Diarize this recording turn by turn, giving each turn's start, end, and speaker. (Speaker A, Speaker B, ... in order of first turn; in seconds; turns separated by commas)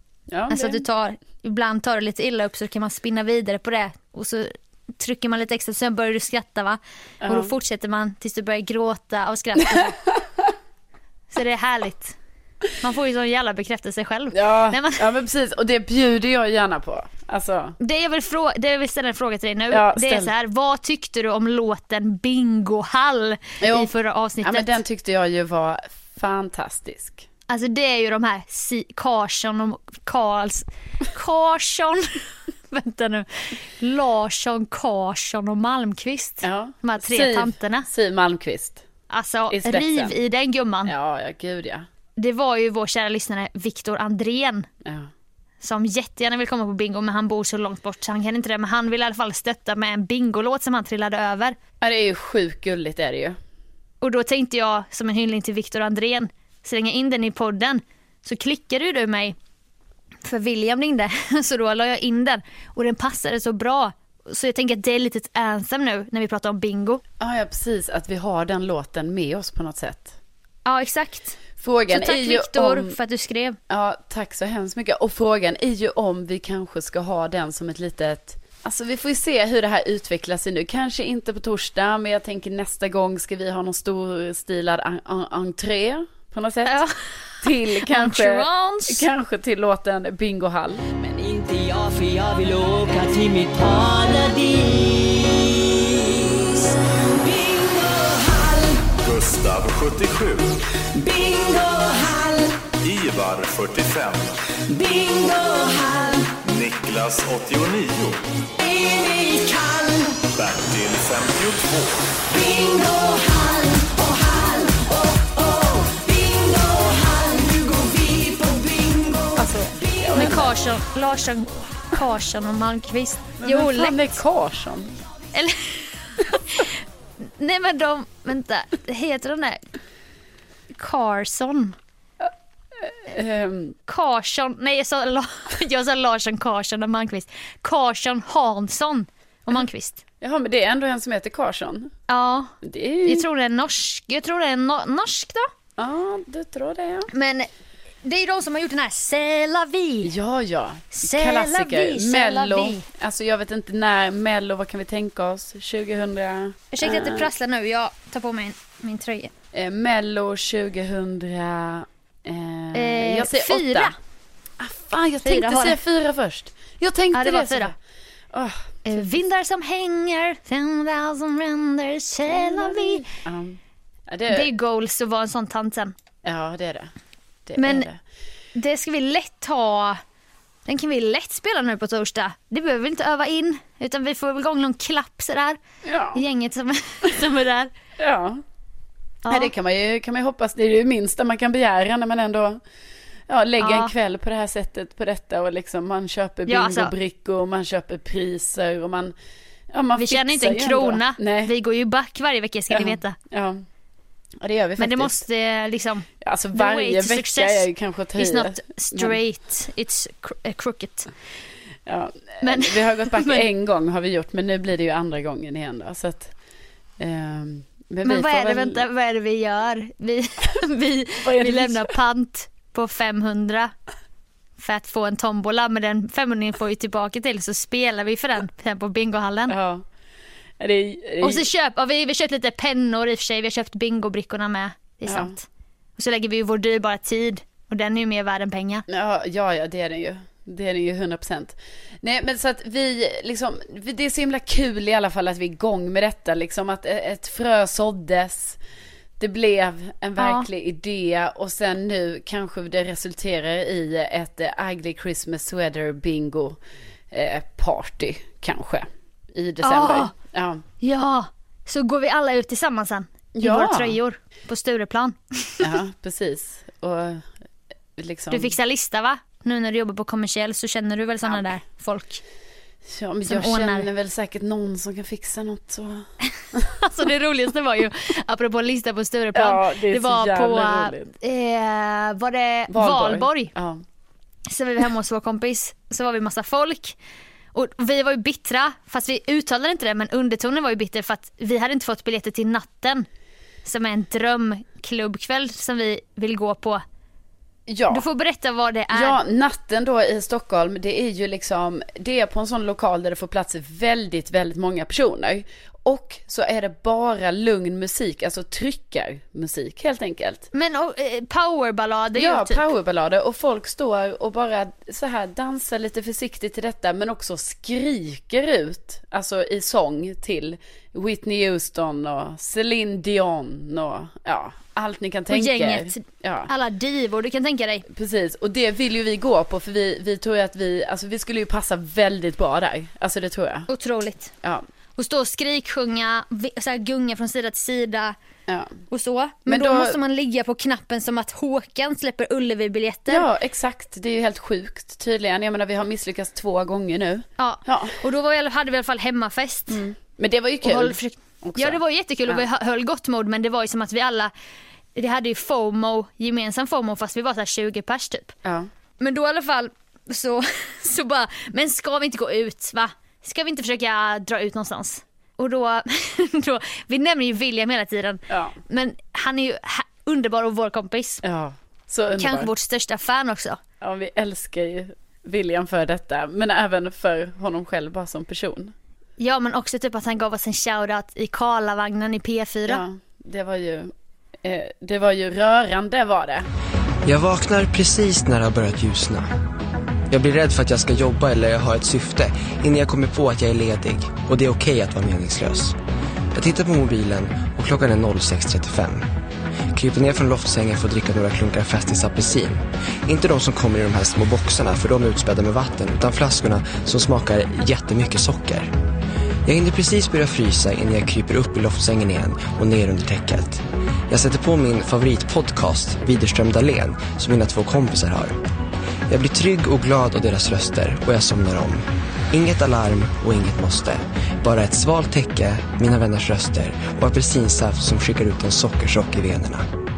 Speaker A: 0.3-0.8, Speaker B: 0.5-9.9, Speaker A: 7.2-7.5, Speaker A: 9.7-10.1, Speaker B: 11.3-12.1, Speaker B: 12.8-15.0, Speaker A: 14.3-17.8, Speaker B: 17.8-24.8, Speaker A: 19.7-20.3, Speaker A: 23.6-23.9, Speaker A: 24.4-27.2, Speaker B: 27.5-32.1, Speaker B: 32.7-37.9, Speaker A: 36.4-38.8, Speaker B: 39.1-40.9, Speaker A: 39.5-40.1, Speaker A: 40.9-41.9, Speaker B: 42.2-44.7, Speaker A: 44.8-45.1, Speaker B: 45.6-51.5, Speaker A: 51.8-53.4, Speaker B: 54.0-59.4, Speaker B: 60.2-67.0, Speaker A: 67.2-70.2, Speaker B: 70.6-73.6, Speaker A: 71.6-72.9, Speaker A: 73.7-86.8, Speaker B: 86.7-89.1, Speaker A: 87.4-90.8, Speaker C: 91.0-98.9, Speaker D: 99.0-100.6, Speaker C: 100.9-102.6, Speaker D: 102.8-104.4, Speaker C: 104.7-106.3, Speaker D: 106.4-108.2, Speaker C: 108.6-110.2, Speaker D: 110.3-112.2, Speaker C: 112.3-119.9, Speaker A: 119.3-120.5, Speaker B: 120.1-124.2, Speaker A: 123.4-124.9, Speaker B: 125.3-129.6, Speaker B: 130.8-131.8, Speaker A: 132.8-133.8, Speaker B: 133.9-140.0, Speaker A: 140.2-141.9, Speaker B: 142.1-145.5, Speaker A: 142.6-143.2, Speaker A: 145.8-147.1, Speaker B: 147.1-147.5, Speaker B: 148.0-150.1, Speaker A: 150.0-157.3, Speaker B: 150.9-152.8, Speaker B: 156.7-159.3, Speaker A: 159.5-163.9, Speaker B: 162.7-163.9, Speaker A: 164.6-167.8, Speaker B: 165.2-165.8, Speaker B: 167.1-167.7, Speaker A: 168.3-169.2, Speaker B: 168.8-173.1, Speaker A: 172.3-174.5, Speaker B: 174.3-175.9, Speaker A: 176.2-176.9, Speaker A: 177.5-178.0, Speaker B: 177.6-177.9, Speaker B: 178.5-180.0, Speaker B: 180.7-185.6, Speaker A: 185.8-186.2, Speaker B: 186.1-187.7, Speaker A: 188.0-188.4, Speaker B: 189.2-189.5, Speaker A: 189.3-192.6, Speaker A: 193.3-199.1, Speaker B: 193.6-193.9, Speaker B: 196.5-196.9, Speaker A: 199.7-201.5, Speaker B: 199.9-203.2, Speaker A: 202.7-203.6, Speaker A: 204.4-205.2, Speaker B: 204.8-211.1, Speaker A: 206.2-209.2, Speaker A: 211.9-216.3, Speaker B: 212.4-213.5, Speaker A: 217.0-218.8, Speaker B: 218.0-223.7, Speaker A: 221.2-221.9, Speaker B: 224.6-229.5, Speaker A: 229.5-229.8, Speaker A: 230.6-231.4, Speaker B: 231.2-235.4, Speaker A: 235.1-235.3, Speaker B: 236.0-238.8, Speaker A: 238.9-248.6, Speaker A: 249.2-256.6, Speaker B: 250.2-250.5, Speaker A: 257.1-260.6, Speaker B: 259.6-260.1, Speaker B: 260.8-265.6, Speaker A: 263.3-263.9, Speaker A: 265.6-267.2, Speaker A: 268.0-268.5, Speaker B: 268.3-272.2, Speaker A: 272.9-276.1, Speaker B: 273.3-273.9, Speaker B: 276.6-283.5, Speaker A: 279.3-281.1, Speaker A: 282.7-283.8, Speaker B: 284.5-286.9, Speaker B: 287.5-293.1, Speaker B: 293.6-296.8, Speaker A: 297.7-298.0, Speaker B: 297.9-299.2, Speaker A: 298.9-310.5, Speaker B: 310.5-312.7, Speaker A: 312.1-326.5, Speaker B: 325.3-327.8, Speaker A: 327.9-333.7, Speaker B: 333.7-334.3, Speaker B: 335.0-338.1, Speaker A: 338.5-338.7, Speaker B: 338.9-343.2, Speaker A: 339.5-340.0, Speaker A: 343.1-347.9, Speaker B: 347.4-349.8, Speaker A: 349.7-352.4, Speaker B: 350.6-354.3, Speaker B: 354.9-358.3, Speaker B: 359.0-371.2, Speaker A: 368.3-368.6, Speaker A: 371.2-372.5, Speaker B: 372.1-373.6, Speaker A: 373.8-378.7, Speaker B: 379.2-382.8, Speaker A: 382.7-383.9, Speaker A: 384.4-386.4, Speaker E: 387.1-389.3, Speaker E: 390.1-395.8, Speaker E: 396.3-399.1, Speaker E: 399.7-408.7, Speaker E: 409.4-418.4, Speaker E: 419.1-429.6